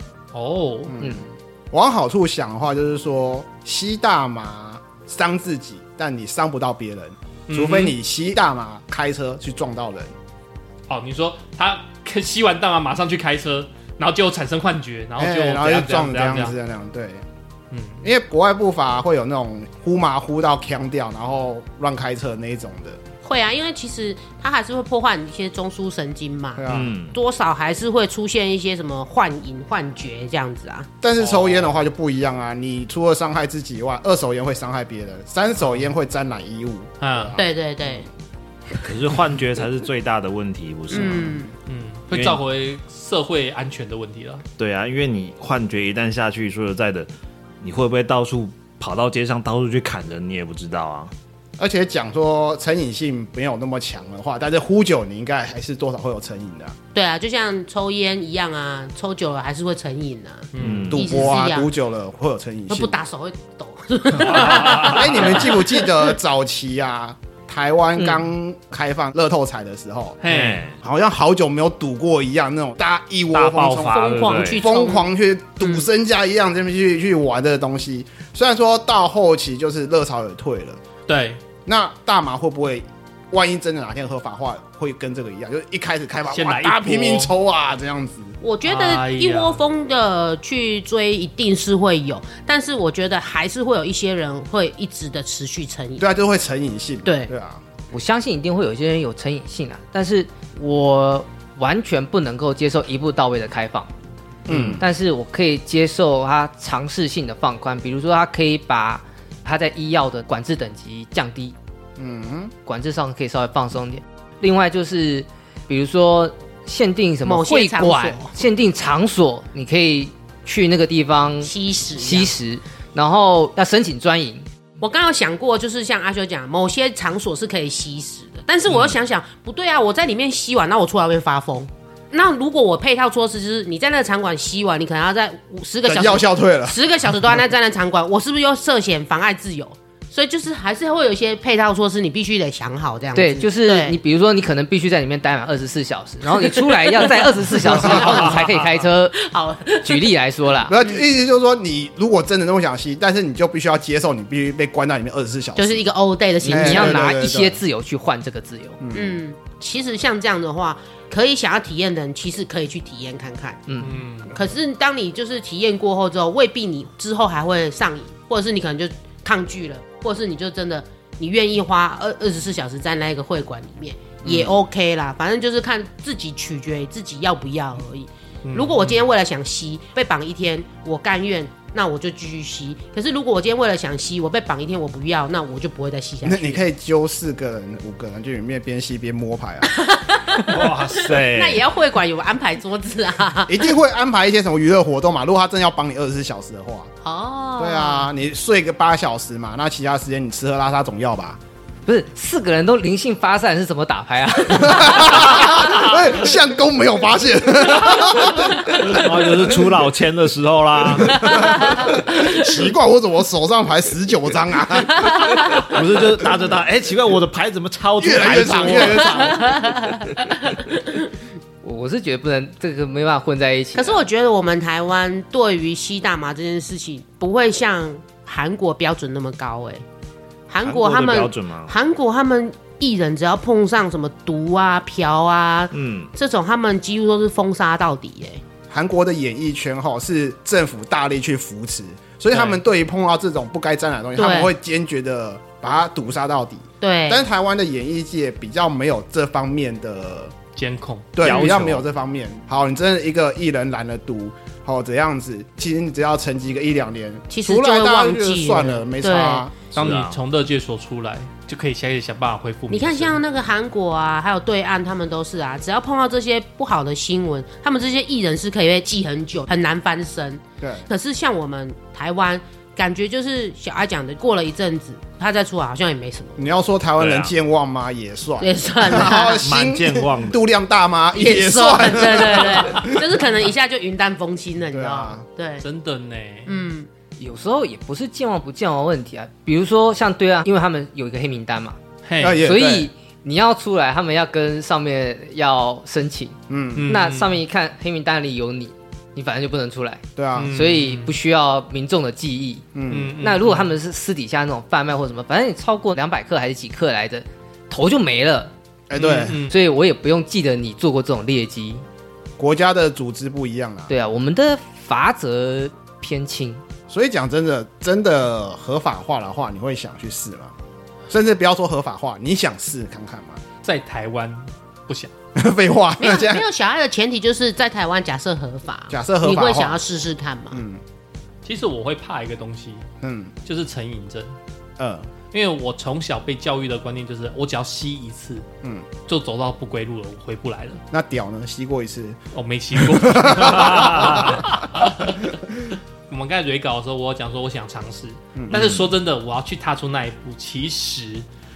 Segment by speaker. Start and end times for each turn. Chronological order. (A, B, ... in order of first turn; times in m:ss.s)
0:00.3-0:01.0 A
0:00.9-0:10.1 B
0:07.5-0:08.0 A
0:10.9-0:16.5 A
0:15.2-0:17.2 B
0:17.7-0:18.0 A
0:18.0-0:23.0 B
0:23.2-0:30.9 C
0:26.6-0:27.0 B
0:26.7-0:27.2 D
0:31.0-0:37.4 B
0:37.0-0:37.4 A
0:37.4-0:38.0 C
0:38.8-0:41.4 D
0:40.9-0:41.5 C
0:41.7-0:44.4 A
0:42.1-0:42.4 D
0:44.6-0:47.1 D
0:47.6-0:51.1 D
0:51.6-0:56.8 B
0:56.9-1:01.7 C
1:00.5-1:01.0 A
1:00.6-1:01.2 D
1:00.9-1:03.0 B
1:02.7-1:06.1 C
1:04.2-1:05.3 A
1:04.4-1:10.2 B
1:08.0-1:08.2 E
1:10.2-1:10.6 A
1:10.2-1:10.8 D
1:10.8-1:20.8 B
1:13.3-1:14.6 D
1:13.9-1:15.1 C
1:15.6-1:15.8 C
1:21.1-1:21.4 A
1:21.6-1:28.4 B
1:26.3-1:27.3 A
1:28.4-1:36.0 C
1:28.6-1:29.6 A
1:36.0-1:37.6 B
1:37.0-1:37.3 C
1:37.9-1:43.9 E
1:44.4-1:44.8 B
1:44.5-1:51.5 E
1:52.0-1:52.5 B
1:52.6-2:04.5 E
1:57.2-1:58.3 C
2:01.4-2:02.3 C
2:04.8-2:24.0 C
2:15.8-2:16.8 B
2:23.1-2:29.2 E
2:26.3-2:30.1 C
2:27.7-2:28.1 B
2:29.7-2:30.8 E
2:30.6-2:35.9 B
2:35.6-2:37.0 C
2:36.4-2:37.6 B
2:36.4-2:38.8 E
2:38.8-2:39.2 B
2:38.9-2:43.6 C
2:43.7-2:44.0 E
2:43.8-2:44.3 A
2:44.2-3:06.6 C
2:54.2-2:54.6 B
2:58.4-2:59.1 A
3:06.2-3:09.7 B
3:09.7-3:13.7 C
3:10.4-3:11.6 D
3:13.5-3:16.9 B
3:17.0-3:18.1 C
3:17.6-3:21.4 B
3:21.8-3:25.6 E
3:24.5-3:29.5 B
3:28.8-3:31.4 D
3:30.9-3:35.2 B
3:31.3-3:32.4 C
3:35.1-3:35.6 C
3:35.7-3:40.0 D
3:38.0-3:39.4 B
3:39.2-3:41.1 C
3:41.6-3:44.0 E
3:43.7-3:49.8 C
3:50.5-3:58.4 C
3:50.6-3:51.7 D
3:55.7-3:56.1 D
3:58.7-4:10.3 B
4:02.3-4:02.6 A
4:04.2-4:04.5 C
4:06.8-4:07.2 C
4:10.6-4:11.5 A
4:11.2-4:19.6 B
4:11.2-4:11.8 D
4:17.3-4:19.4 C
4:19.7-4:23.2 A
4:19.8-4:20.2 D
4:22.7-4:36.4 C
4:30.6-4:30.9 B
4:36.4-4:43.0 B
4:37.0-4:37.3 D
4:38.4-4:39.5 C
4:39.4-4:40.4 D
4:41.1-4:45.6 C
4:44.7-4:45.2 B
4:45.6-4:46.6 A
4:46.5-4:46.9 C
4:47.2-4:51.8 E
4:52.0-4:52.4 A
4:52.2-4:52.9 B
4:52.3-5:02.6 E
4:56.5-4:56.9 B
4:56.7-4:57.4 A
5:00.2-5:00.6 B
5:00.4-5:01.1 A
5:02.7-5:03.1 B
5:02.9-5:03.7 A
5:03.2-5:08.5 E
5:08.9-5:09.4 B
5:09.0-5:09.5 A
5:09.3-5:11.8 E
5:12.4-5:13.9 B
5:13.9-5:16.6 E
5:16.9-5:20.5 B
5:21.1-5:23.4 B
5:23.6-5:25.1 A
5:25.3-5:26.4 B
5:26.0-5:30.6 C
5:28.9-5:29.8 B
5:30.5-5:30.8 B
5:31.4-5:32.8 A
5:33.0-5:33.3 B
5:33.4-5:34.4 A
5:34.8-5:35.1 B
5:35.3-5:38.4 A
5:39.1-5:40.8 A
5:40.9-5:42.2 B
5:42.3-5:51.2 A
5:42.8-5:44.3 B
5:43.5-5:44.4 D
5:48.4-5:48.7 B
5:48.5-5:48.9 D